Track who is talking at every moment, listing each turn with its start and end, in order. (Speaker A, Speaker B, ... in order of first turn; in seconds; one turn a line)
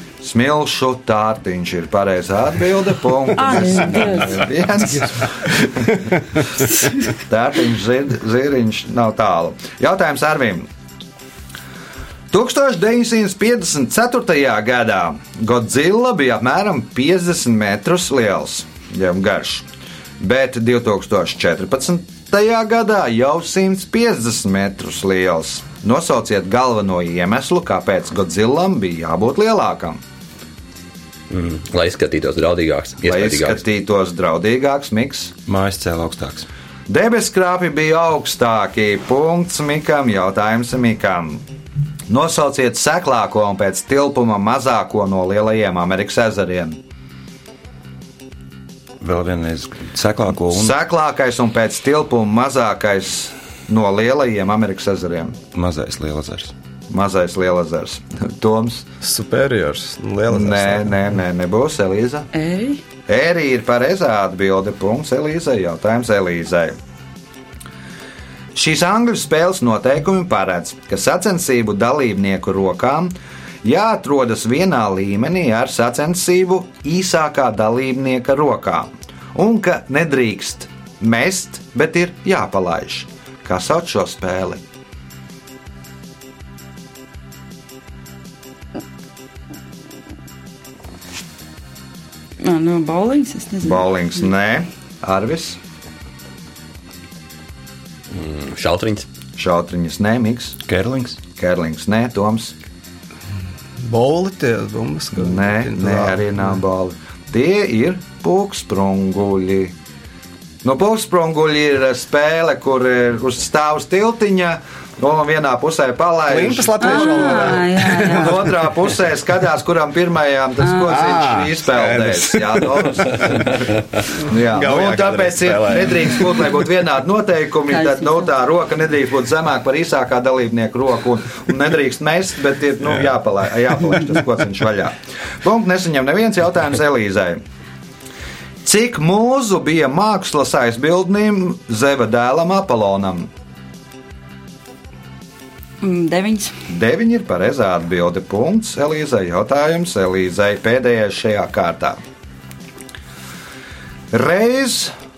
Speaker A: 0.2-6.1
Speaker B: 3.3-4.5
Speaker B: 6.6-7.1
Speaker A: 7.1-10.7
Speaker A: 12.3-19.6
Speaker A: 20.2-30.0
Speaker C: 31.3-33.6
Speaker A: 33.0-35.4
Speaker D: 35.5-36.5
Speaker A: 36.9-41.4
Speaker A: 42.1-46.8
Speaker D: 49.0-50.8
Speaker A: 50.5-55.4
Speaker D: 55.5-56.5
Speaker A: 56.9-58.9
Speaker E: 59.0-60.9
Speaker A: 60.3-62.3
Speaker B: 62.3-62.8
Speaker A: 63.1-66.8
Speaker A: 68.5-84.6
Speaker B: 92.4-93.9
Speaker A: 93.6-95.6
Speaker C: 98.1-99.1
Speaker A: 99.4-100.6
Speaker D: 100.6-101.2
Speaker A: 101.4-102.5
Speaker E: 103.8-106.4
Speaker A: 105.1-109.7
Speaker A: 110.6-123.6
Speaker E: 116.3-118.5
Speaker B: 116.8-118.4
Speaker E: 120.8-123.4
Speaker A: 124.2-137.4
Speaker E: 124.3-126.4
Speaker B: 127.7-128.2
Speaker A: 138.6-143.3
Speaker B: 145.8-146.5
Speaker A: 146.7-152.0
Speaker A: 154.1-154.9